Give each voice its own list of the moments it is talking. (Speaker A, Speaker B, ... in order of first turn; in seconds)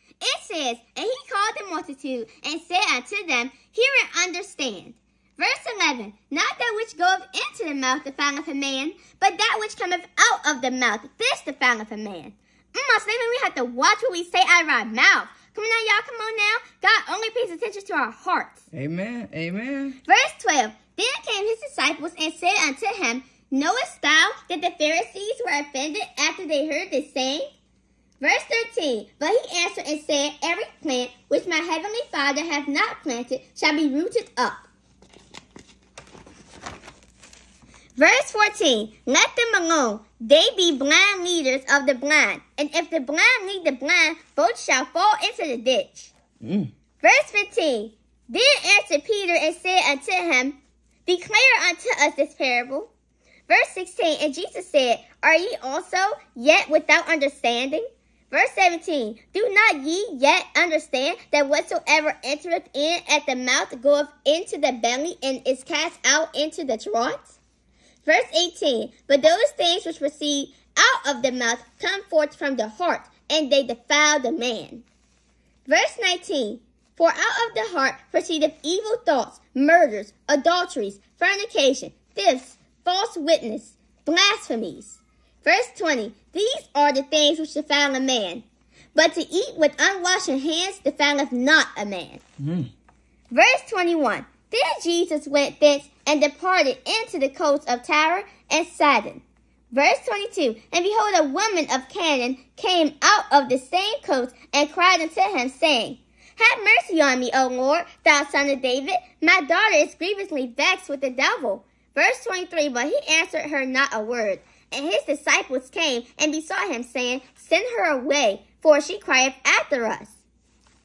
Speaker A: 0.2-18.6, 20.0-27.5, 28.2-34.7, 38.0-46.1, 47.0-52.9, 53.5-67.3, 68.0-74.8, 75.7-88.4, 88.9-92.2, 93.3-120.2
Speaker B: 18.7-20.0, 46.4-46.7, 92.4-92.7